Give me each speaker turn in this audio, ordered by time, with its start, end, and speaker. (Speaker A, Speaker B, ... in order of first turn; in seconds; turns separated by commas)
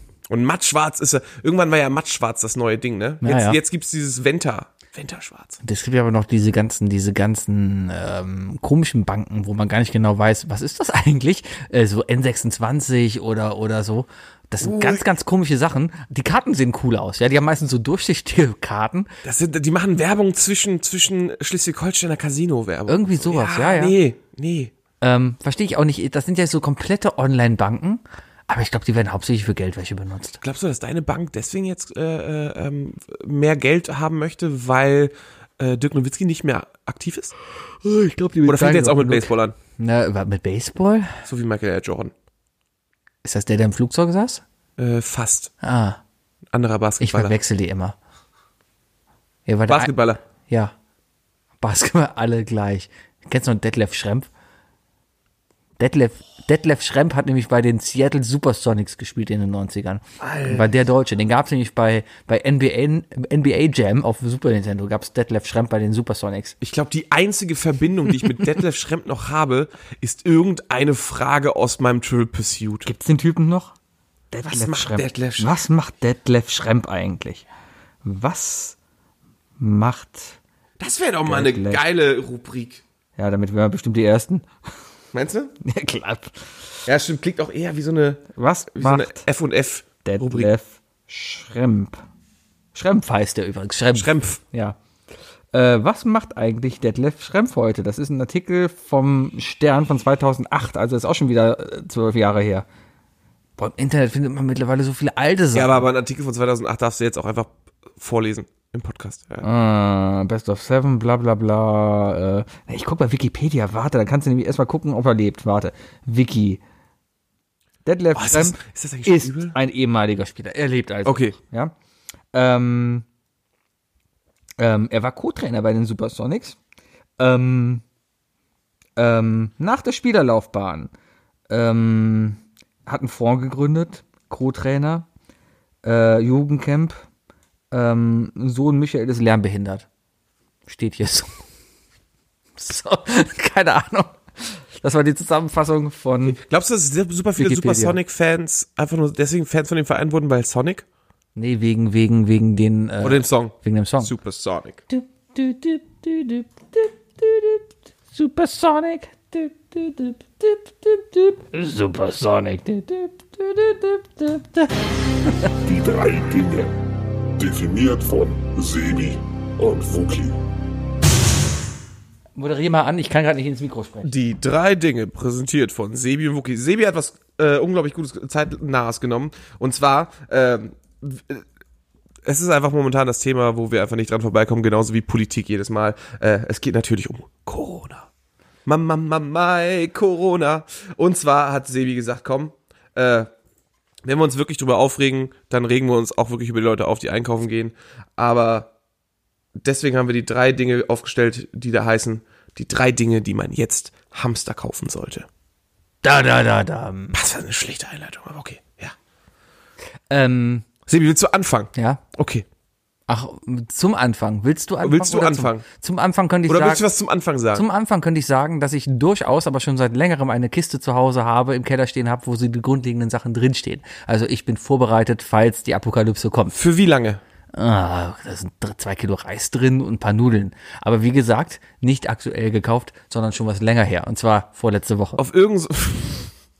Speaker A: 0.3-5.6, Speaker B: 3.2-3.6, Speaker B: 5.6-19.1, Speaker A: 14.6-15.1, Speaker A: 19.2-24.7, Speaker B: 22.9-24.0, Speaker B: 25.0-30.4, Speaker A: 30.4-37.3, Speaker B: 37.8-41.2, Speaker A: 38.5-39.5, Speaker A: 41.2-42.1, Speaker B: 43.2-44.4, Speaker A: 44.8-45.5, Speaker B: 45.6-46.0, Speaker A: 46.5-47.4, Speaker B: 47.0-48.0, Speaker B: 49.5-49.9, Speaker A: 49.7-50.2, Speaker B: 50.4-50.7, Speaker B: 51.6-54.3, Speaker B: 55.8-66.6, Speaker A: 60.2-60.8, Speaker A: 66.6-72.9, Speaker B: 72.9-73.7, Speaker B: 74.3-77.4, Speaker A: 74.5-75.5, Speaker B: 78.0-78.8, Speaker B: 79.6-80.4, Speaker A: 80.8-82.8, Speaker B: 81.2-81.8, Speaker B: 83.2-84.5, Speaker A: 85.1-85.5, Speaker B: 85.6-86.6, Speaker A: 86.9-90.5, Speaker B: 88.3-89.2, Speaker B: 90.0-92.0, Speaker B: 92.7-94.8, Speaker A: 93.9-94.4, Speaker B: 95.5-102.7, Speaker B: 103.6-105.8, Speaker A: 105.5-109.5, Speaker B: 109.4-116.6, Speaker B: 117.8-121.7, Speaker A: 118.1-119.5, Speaker A: 121.0-121.4, Speaker B: 122.3-123.0, Speaker B: 124.6-126.6, Speaker B: 127.2-127.8, Speaker B: 129.0-130.9, Speaker B: 131.5-135.1, Speaker B: 135.8-137.0, Speaker B: 137.7-139.9, Speaker B: 140.7-141.3, Speaker B: 142.6-146.4, Speaker A: 146.2-150.8, Speaker B: 147.4-148.0, Speaker B: 151.4-154.1, Speaker A: 153.0-154.8, Speaker B: 154.9-164.7, Speaker C: 165.6-166.7, Speaker C: 167.4-170.4, Speaker B: 172.3-174.1, Speaker A: 174.0-181.4, Speaker A: 182.2-188.1, Speaker A: 188.7-193.3, Speaker A: 194.0-198.7, Speaker A: 199.6-205.3, Speaker B: 206.0-207.2, Speaker A: 207.1-208.9, Speaker B: 210.1-210.7, Speaker A: 210.9-212.4, Speaker B: 211.7-212.0, Speaker B: 213.1-216.8, Speaker A: 214.8-215.6, Speaker A: 216.5-217.7, Speaker B: 217.5-226.6, Speaker A: 226.5-227.2, Speaker B: 227.5-235.2, Speaker A: 235.2-236.3